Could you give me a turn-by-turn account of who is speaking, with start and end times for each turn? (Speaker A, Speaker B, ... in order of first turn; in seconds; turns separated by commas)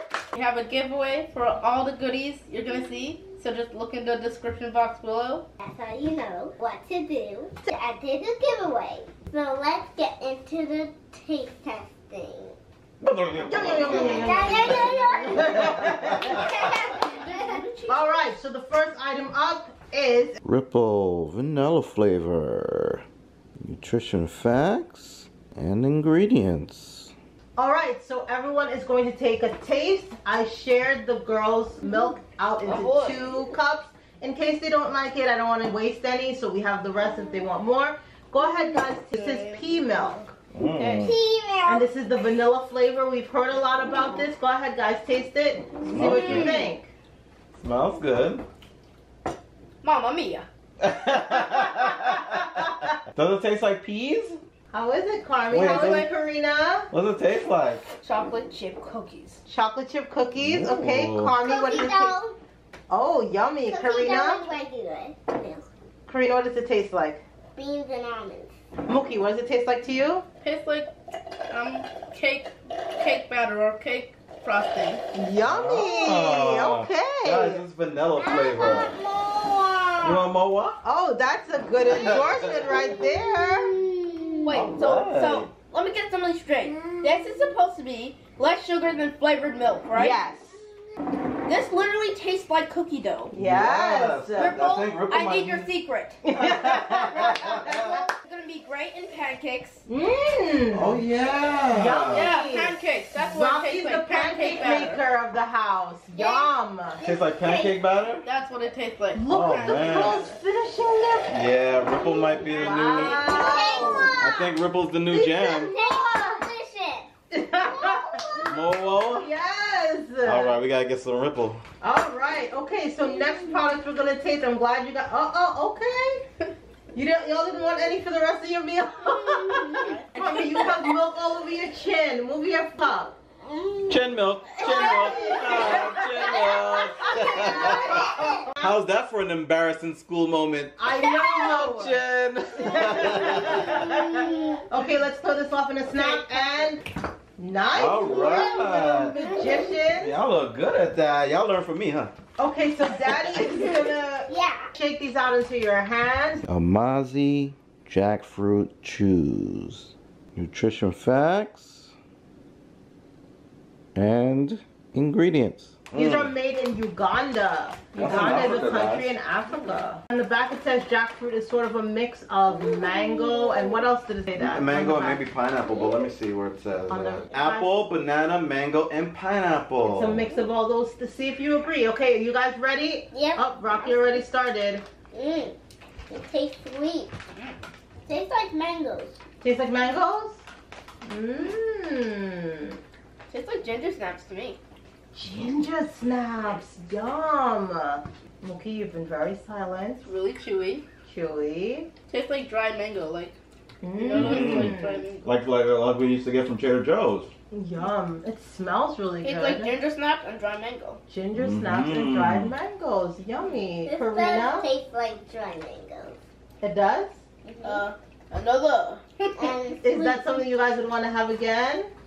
Speaker A: 0.3-5.5, Speaker B: 5.6-12.5, Speaker C: 13.0-16.3, Speaker D: 13.4-16.5, Speaker B: 13.9-17.6, Speaker A: 14.6-15.0, Speaker A: 16.9-18.3, Speaker D: 17.9-20.4, Speaker C: 20.4-23.0, Speaker C: 23.6-27.1, Speaker D: 27.6-46.9, Speaker A: 32.6-33.2, Speaker A: 39.1-40.2, Speaker C: 40.5-41.1, Speaker B: 41.0-41.9, Speaker C: 45.9-46.6, Speaker A: 45.9-46.7, Speaker C: 47.5-48.4, Speaker A: 49.8-50.5, Speaker C: 50.8-52.6, Speaker D: 51.4-52.9, Speaker C: 53.1-54.4, Speaker D: 54.7-56.9, Speaker C: 55.5-56.0, Speaker A: 55.6-56.1, Speaker C: 56.9-57.8, Speaker A: 58.0-59.4, Speaker D: 59.5-62.2, Speaker C: 60.4-61.3, Speaker B: 61.4-62.4, Speaker D: 62.9-64.6, Speaker B: 63.6-65.6, Speaker D: 66.1-67.2, Speaker B: 67.5-68.5, Speaker D: 68.8-70.2, Speaker A: 70.4-70.9, Speaker A: 71.5-75.0, Speaker D: 75.1-77.6, Speaker C: 75.4-79.0, Speaker B: 78.2-80.2, Speaker C: 80.0-80.8, Speaker D: 80.8-83.7, Speaker B: 81.8-84.6, Speaker C: 81.9-82.3, Speaker A: 84.4-90.2, Speaker C: 84.5-85.5, Speaker B: 86.6-87.5, Speaker D: 89.9-90.5, Speaker A: 91.5-93.3, Speaker D: 93.3-94.6, Speaker C: 93.3-95.7, Speaker A: 94.4-96.2, Speaker D: 96.2-97.9, Speaker C: 96.3-98.0, Speaker A: 97.7-99.8, Speaker D: 99.9-101.0, Speaker C: 100.7-102.3, Speaker D: 101.7-107.0, Speaker A: 102.1-105.0, Speaker B: 106.1-107.8, Speaker C: 107.0-108.2, Speaker A: 108.2-110.3, Speaker D: 109.1-111.3, Speaker C: 109.3-110.2, Speaker C: 111.3-113.3, Speaker D: 112.5-114.3, Speaker A: 112.8-114.0, Speaker B: 113.3-114.5, Speaker C: 114.2-115.7, Speaker D: 115.1-116.4, Speaker B: 115.4-117.1, Speaker D: 117.3-120.6, Speaker B: 117.7-118.5, Speaker C: 118.5-119.3, Speaker C: 120.2-121.6, Speaker D: 121.8-126.2, Speaker B: 123.0-123.8, Speaker D: 126.9-133.1, Speaker B: 129.5-129.9, Speaker A: 129.8-130.3, Speaker B: 133.4-134.0, Speaker C: 133.9-144.0, Speaker B: 134.6-138.3, Speaker D: 134.8-136.4, Speaker D: 137.0-138.7, Speaker D: 140.8-142.0, Speaker B: 141.0-141.3, Speaker D: 142.6-146.8, Speaker B: 143.8-144.6, Speaker A: 145.9-146.7, Speaker D: 147.4-150.2, Speaker C: 147.7-149.2, Speaker B: 148.0-149.7, Speaker C: 149.9-152.1, Speaker D: 152.4-156.4, Speaker B: 154.3-154.7, Speaker C: 156.4-161.9, Speaker C: 163.9-166.3, Speaker D: 165.9-175.2, Speaker C: 167.9-169.1, Speaker B: 172.5-173.8, Speaker C: 174.4-180.2, Speaker B: 175.6-176.1, Speaker D: 176.9-177.8, Speaker D: 179.8-184.8, Speaker B: 183.1-184.2, Speaker B: 185.1-185.6, Speaker B: 186.1-187.1, Speaker B: 188.1-189.2, Speaker D: 189.4-190.4, Speaker D: 191.0-192.8, Speaker A: 193.3-194.6, Speaker D: 195.1-200.0, Speaker A: 200.0-200.8, Speaker D: 201.0-201.9, Speaker A: 202.1-203.4, Speaker D: 203.8-205.0, Speaker A: 204.0-205.3, Speaker C: 204.1-207.3, Speaker D: 207.5-209.7, Speaker A: 209.2-211.0, Speaker D: 211.1-214.7, Speaker C: 211.3-212.5, Speaker B: 213.8-216.2, Speaker D: 216.6-217.2, Speaker B: 217.4-217.8, Speaker A: 217.6-219.5, Speaker B: 219.4-220.5, Speaker D: 219.8-221.9